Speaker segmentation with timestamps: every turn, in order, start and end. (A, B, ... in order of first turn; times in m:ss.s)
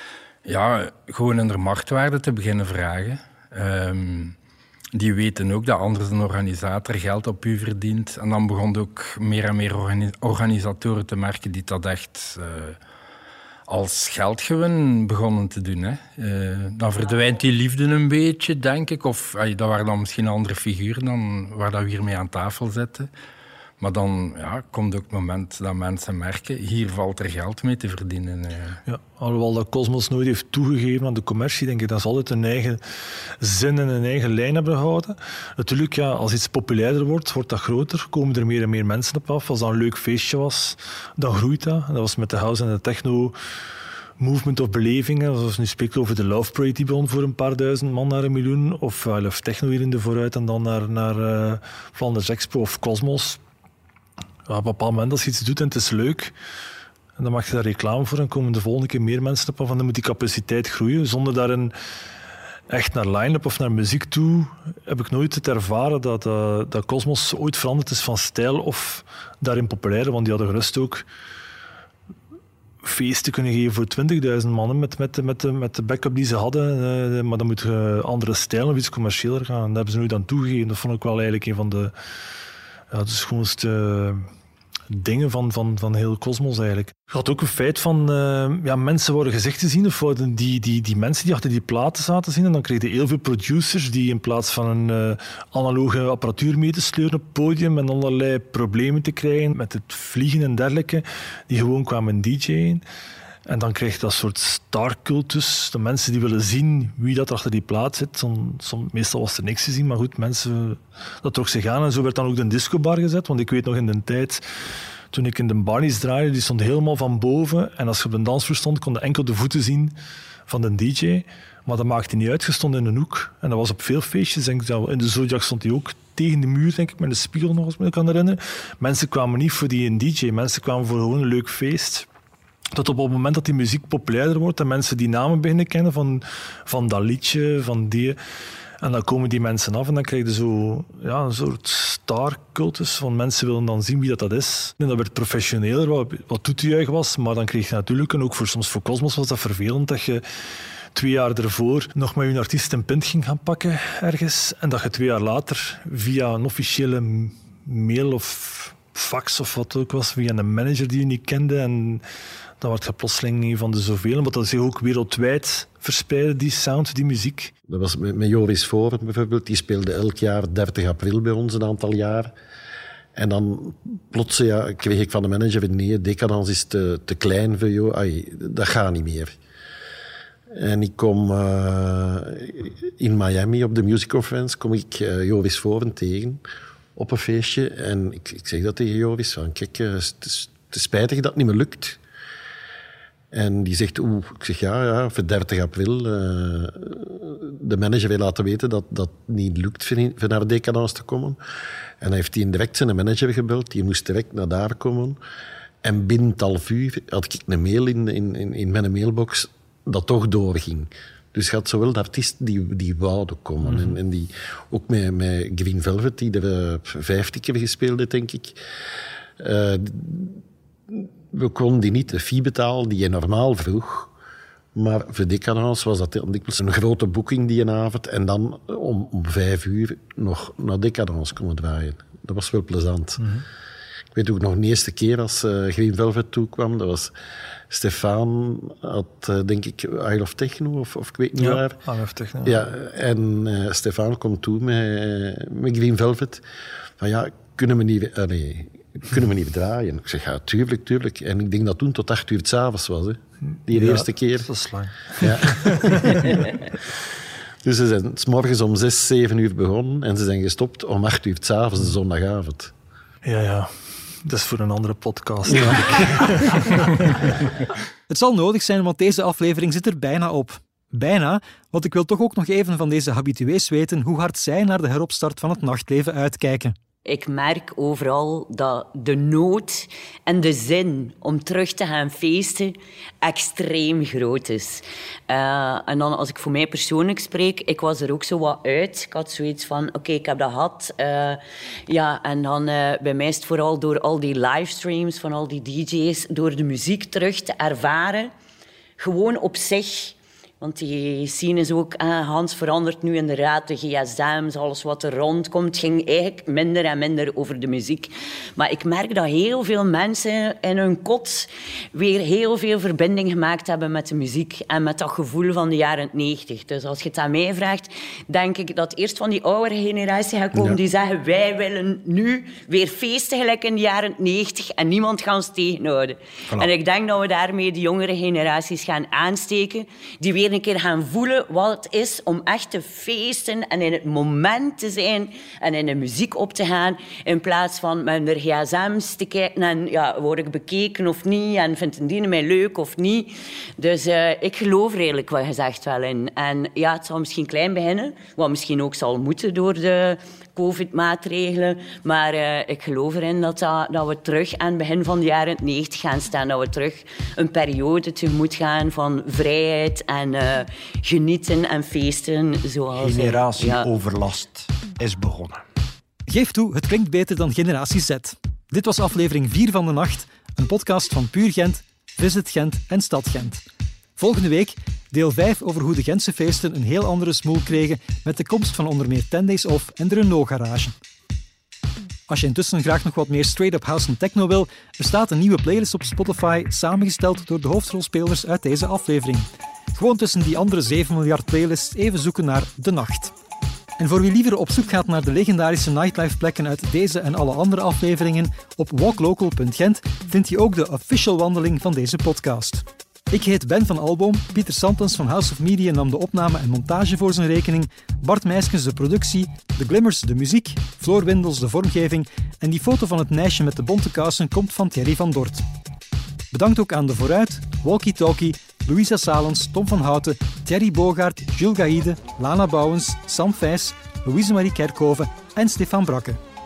0:00.4-0:04.4 A
0:04.9-0:12.8 A
0:13.7-0:23.1 A
0:23.8-0:28.8 A
0:28.9-0:43.4 B
0:44.2-0:53.4 B
0:54.5-0:56.3 B
0:57.2-1:01.7 B
1:02.7-1:11.1 B
1:12.8-1:21.9 B
1:22.9-1:24.3 B
1:24.9-1:42.8 B
1:43.5-1:54.4 B
1:55.1-1:59.9 B
2:00.5-2:12.1 B
2:12.8-2:18.2 B
2:18.8-2:30.2 B
2:30.9-2:42.0 B
2:42.6-2:47.5 B
2:47.7-2:52.3 C
2:53.2-2:59.4 C
3:00.5-3:06.4 C
3:07.0-3:12.0 C
3:13.3-3:21.4 C
3:22.0-3:25.2 C
3:25.8-3:38.6 C
3:33.7-3:33.9 B
3:39.4-3:44.1 C
3:44.8-3:53.2 C
3:53.2-3:53.4 B
3:54.1-3:57.1 C
3:57.7-4:01.8 C
4:01.4-4:02.6 B
4:02.4-4:06.4 C
4:07.0-4:14.5 C
4:13.7-4:16.6 B
4:15.2-4:16.4 C
4:17.6-4:22.7 C
4:23.2-4:27.2 B
4:25.6-4:26.0 C
4:28.1-4:36.8 D
4:37.1-4:58.3 E
4:59.0-6:03.9 E
6:02.9-6:05.6 F
6:06.3-6:13.6 D
6:14.2-6:20.9 D
6:22.3-6:33.3 D
6:34.0-6:55.6 D
6:56.5-7:06.4 D